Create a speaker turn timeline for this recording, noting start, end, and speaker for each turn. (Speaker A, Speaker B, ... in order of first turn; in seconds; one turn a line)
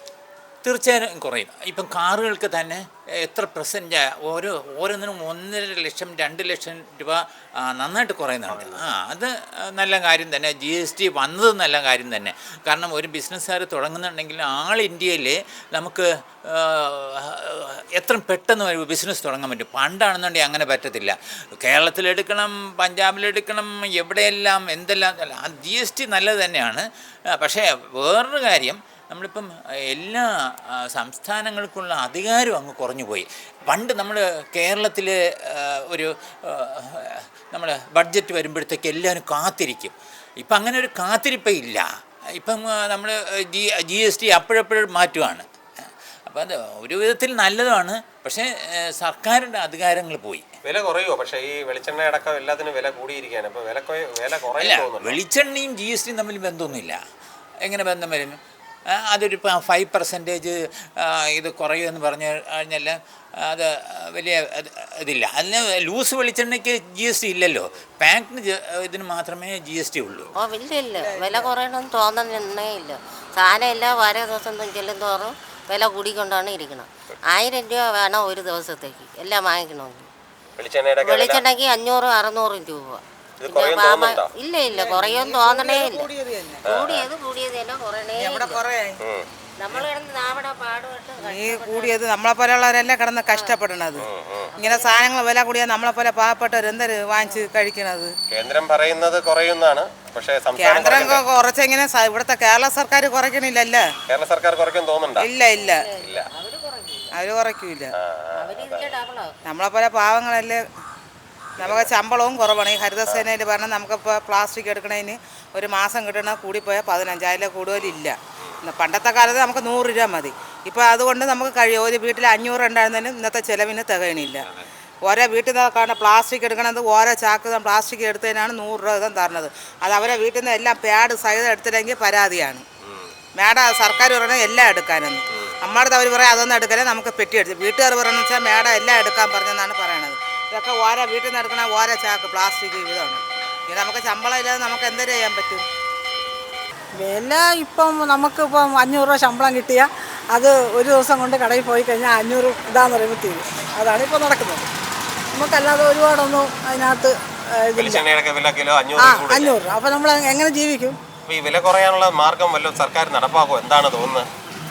Speaker A: 0.6-30.2
Speaker B: 8.5-8.8
Speaker A: 30.9-41.9
Speaker A: 42.4-45.5
Speaker A: 46.3-48.5
Speaker A: 49.0-50.5
Speaker B: 50.6-55.2
Speaker A: 54.6-57.0
Speaker A: 57.7-58.4
Speaker A: 59.1-63.0
Speaker A: 63.5-70.3
Speaker C: 70.3-80.1
Speaker B: 80.6-81.5
Speaker C: 81.0-86.1
Speaker B: 83.4-84.3
Speaker D: 84.9-85.4
Speaker D: 86.0-86.6
Speaker B: 86.7-87.1
Speaker C: 86.7-88.6
Speaker D: 88.2-89.0
Speaker C: 89.6-92.0
Speaker D: 91.3-94.1
Speaker C: 93.3-93.6
Speaker B: 94.0-94.6
Speaker C: 94.5-95.0
Speaker D: 94.6-98.2
Speaker B: 98.3-101.2
Speaker D: 100.6-103.9
Speaker B: 104.1-105.3
Speaker D: 105.2-105.9
Speaker C: 105.5-107.1
Speaker B: 105.9-106.3
Speaker D: 107.1-108.0
Speaker B: 108.0-109.0
Speaker C: 108.4-109.3
Speaker D: 109.5-110.6
Speaker D: 111.6-124.5
Speaker B: 111.6-111.9
Speaker B: 124.3-124.7
Speaker D: 125.1-132.7
Speaker D: 133.4-145.7
Speaker E: 146.9-154.7
Speaker E: 155.3-158.1
Speaker B: 157.8-159.6
Speaker E: 159.0-161.0
Speaker B: 161.3-164.3